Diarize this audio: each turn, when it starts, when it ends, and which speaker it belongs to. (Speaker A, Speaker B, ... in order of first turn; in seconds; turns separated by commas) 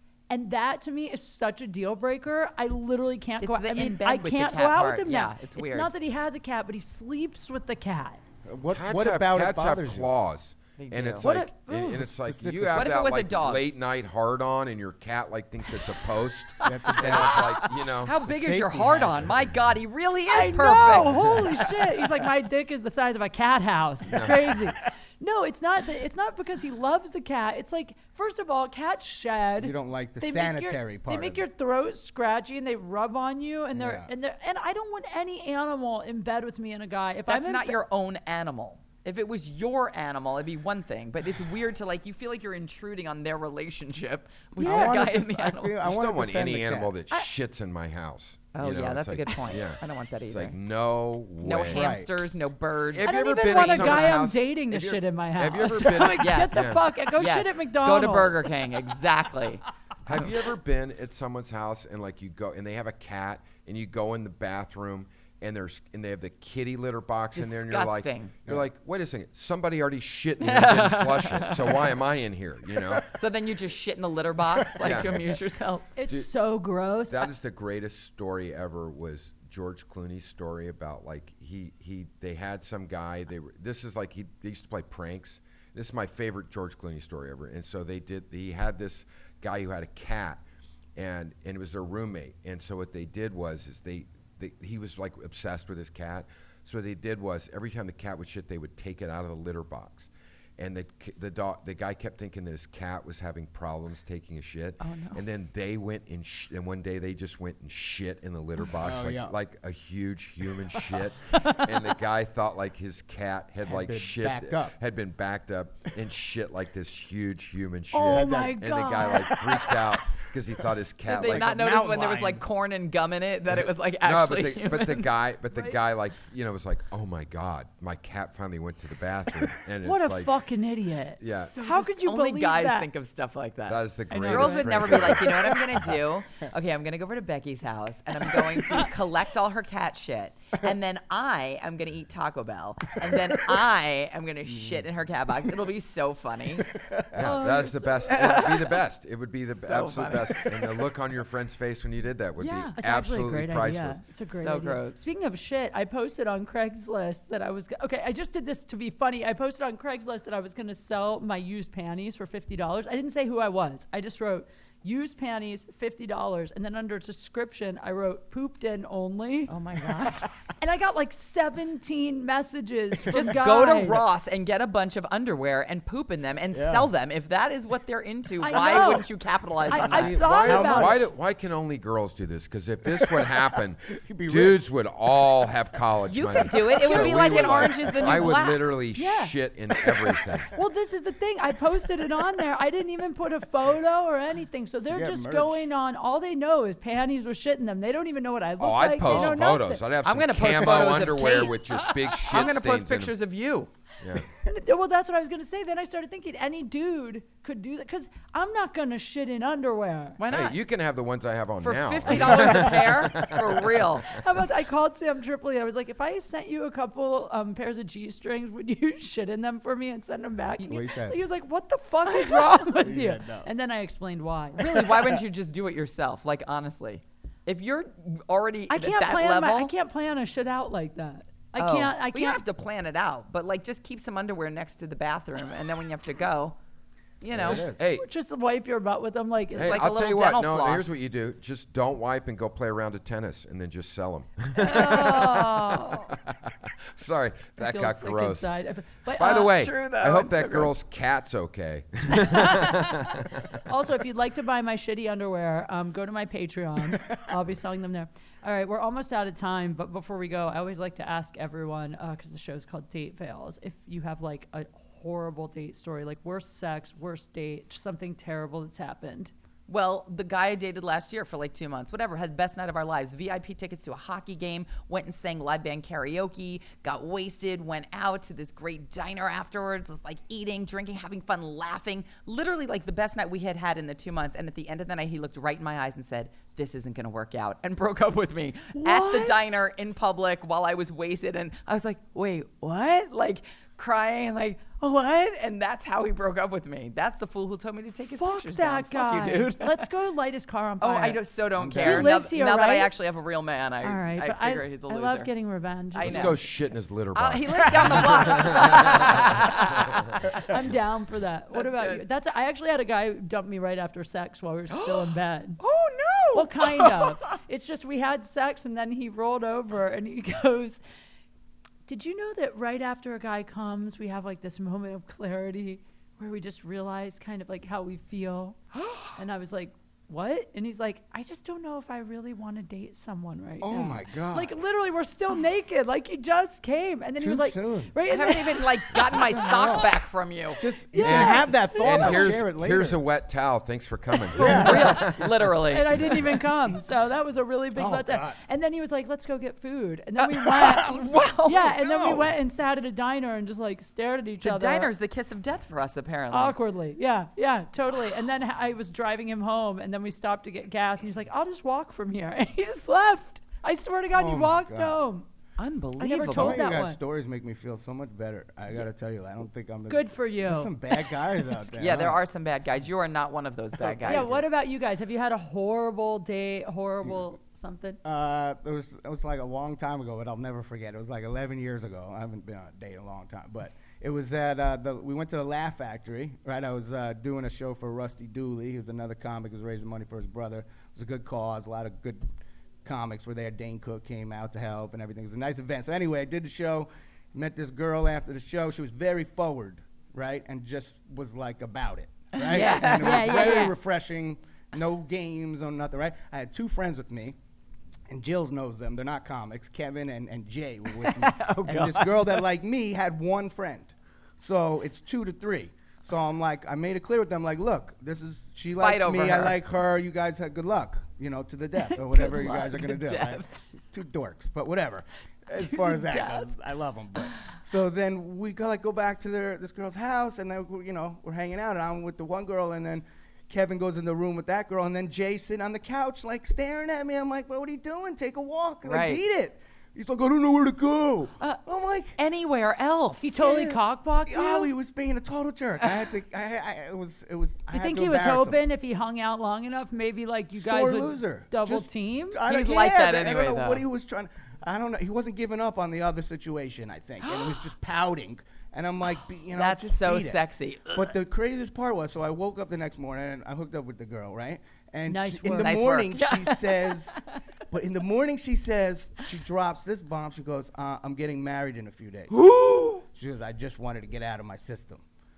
Speaker A: 0.3-8.2, Speaker B: 3.4-5.9, Speaker C: 8.4-10.1, Speaker D: 8.7-18.1, Speaker B: 10.8-11.2, Speaker A: 11.2-12.1, Speaker C: 12.0-12.9, Speaker B: 12.7-13.6, Speaker C: 16.6-19.4, Speaker B: 16.8-21.6, Speaker A: 20.3-37.8, Speaker D: 21.1-21.4, Speaker C: 21.2-22.1, Speaker D: 24.1-24.4, Speaker C: 24.1-24.6, Speaker C: 29.6-31.4, Speaker C: 33.7-34.1, Speaker B: 37.3-45.8, Speaker C: 44.5-46.9, Speaker A: 44.6-45.0, Speaker D: 45.8-51.9, Speaker B: 48.5-50.6, Speaker B: 51.4-54.3, Speaker C: 51.7-52.1, Speaker D: 52.9-56.8, Speaker A: 53.0-58.5, Speaker B: 56.2-60.1, Speaker D: 60.0-73.1, Speaker B: 67.3-68.3, Speaker B: 70.4-71.9, Speaker B: 73.0-75.9, Speaker D: 74.8-75.3, Speaker A: 75.9-77.3, Speaker D: 77.1-90.4, Speaker D: 91.0-121.5, Speaker B: 104.8-105.2, Speaker C: 108.8-109.3, Speaker C: 113.7-114.7, Speaker A: 117.9-119.4, Speaker C: 118.0-119.8, Speaker B: 121.0-125.1, Speaker C: 121.2-122.4, Speaker D: 124.0-130.3, Speaker A: 129.8-132.9, Speaker D: 131.2-131.5, Speaker B: 131.5-146.7, Speaker D: 133.7-136.0, Speaker A: 134.1-134.9, Speaker C: 135.2-135.8, Speaker C: 138.3-138.9, Speaker C: 143.0-143.6, Speaker C: 144.5-144.8, Speaker C: 146.6-147.2, Speaker D: 147.1-154.0, Speaker A: 147.2-148.4, Speaker B: 148.1-148.8, Speaker B: 149.5-150.6, Speaker B: 152.4-152.6, Speaker A: 152.5-169.5, Speaker B: 154.3-155.0, Speaker B: 169.5-170.3, Speaker A: 170.6-174.1, Speaker B: 173.1-180.2, Speaker C: 176.5-176.9, Speaker A: 178.4-179.1, Speaker A: 179.7-181.0, Speaker C: 179.7-181.1, Speaker D: 179.9-190.5, Speaker C: 182.9-184.6, Speaker B: 186.1-188.7, Speaker C: 186.4-188.3, Speaker A: 188.9-189.3, Speaker C: 189.8-190.5, Speaker A: 190.5-199.8, Speaker C: 194.9-195.7, Speaker D: 198.6-203.2, Speaker B: 200.0-203.7, Speaker C: 200.6-200.9, Speaker A: 201.8-202.5, Speaker D: 204.0-204.2, Speaker A: 204.3-210.2, Speaker B: 210.2-210.6, Speaker D: 210.3-214.0, Speaker B: 211.6-214.1, Speaker C: 212.1-212.9, Speaker A: 214.1-224.8, Speaker C: 220.6-221.2, Speaker C: 222.8-223.5, Speaker B: 224.6-229.7, Speaker C: 224.6-225.2, Speaker A: 228.7-232.4, Speaker B: 231.6-236.6, Speaker B: 237.2-237.7, Speaker C: 237.3-237.8, Speaker D: 237.3-238.0, Speaker A: 237.9-239.8, Speaker B: 239.5-240.9, Speaker D: 239.5-248.5, Speaker A: 244.6-246.1, Speaker A: 247.6-249.5, Speaker D: 249.1-253.6, Speaker B: 249.2-250.7, Speaker A: 252.1-269.3, Speaker C: 256.9-257.2, Speaker B: 269.7-299.9, Speaker A: 288.7-289.6, Speaker A: 298.2-301.2, Speaker B: 300.8-305.3, Speaker C: 301.6-302.1, Speaker A: 301.8-302.9, Speaker A: 303.8-306.4, Speaker B: 305.9-306.4, Speaker D: 306.0-309.3, Speaker B: 307.1-310.5, Speaker A: 309.2-315.6, Speaker B: 311.5-312.0, Speaker B: 314.7-317.2, Speaker A: 316.3-320.8, Speaker A: 321.9-328.6, Speaker A: 329.1-339.7, Speaker C: 333.6-334.5, Speaker C: 337.2-337.9, Speaker B: 338.1-340.6, Speaker C: 339.2-339.9, Speaker C: 340.6-343.0, Speaker A: 340.9-342.3, Speaker D: 341.0-345.5, Speaker B: 344.3-346.3, Speaker C: 344.3-345.0, Speaker A: 344.4-354.9, Speaker C: 347.8-348.4, Speaker B: 350.5-351.7, Speaker C: 350.6-351.1, Speaker C: 351.8-352.3, Speaker B: 354.4-356.6, Speaker A: 356.3-365.2, Speaker C: 364.1-365.0, Speaker B: 365.6-366.7, Speaker A: 366.0-367.0, Speaker C: 366.2-372.2, Speaker A: 369.9-370.8, Speaker B: 371.7-374.4, Speaker C: 373.8-374.4, Speaker A: 374.0-378.0, Speaker C: 378.0-392.3, Speaker C: 392.8-407.4, Speaker B: 402.3-403.7, Speaker A: 402.5-403.8, Speaker C: 408.1-442.1, Speaker B: 411.0-412.4, Speaker B: 418.8-419.6, Speaker B: 421.9-423.5, Speaker A: 425.7-426.5, Speaker B: 438.8-439.2, Speaker B: 442.2-443.4, Speaker A: 443.2-444.7, Speaker C: 443.4-448.6, Speaker A: 447.7-452.4, Speaker C: 450.5-460.4, Speaker B: 452.4-453.8, Speaker B: 457.2-457.6, Speaker B: 459.5-461.1, Speaker C: 460.9-472.3, Speaker A: 465.1-465.9, Speaker B: 465.6-467.2, Speaker B: 472.3-473.0, Speaker C: 473.1-475.0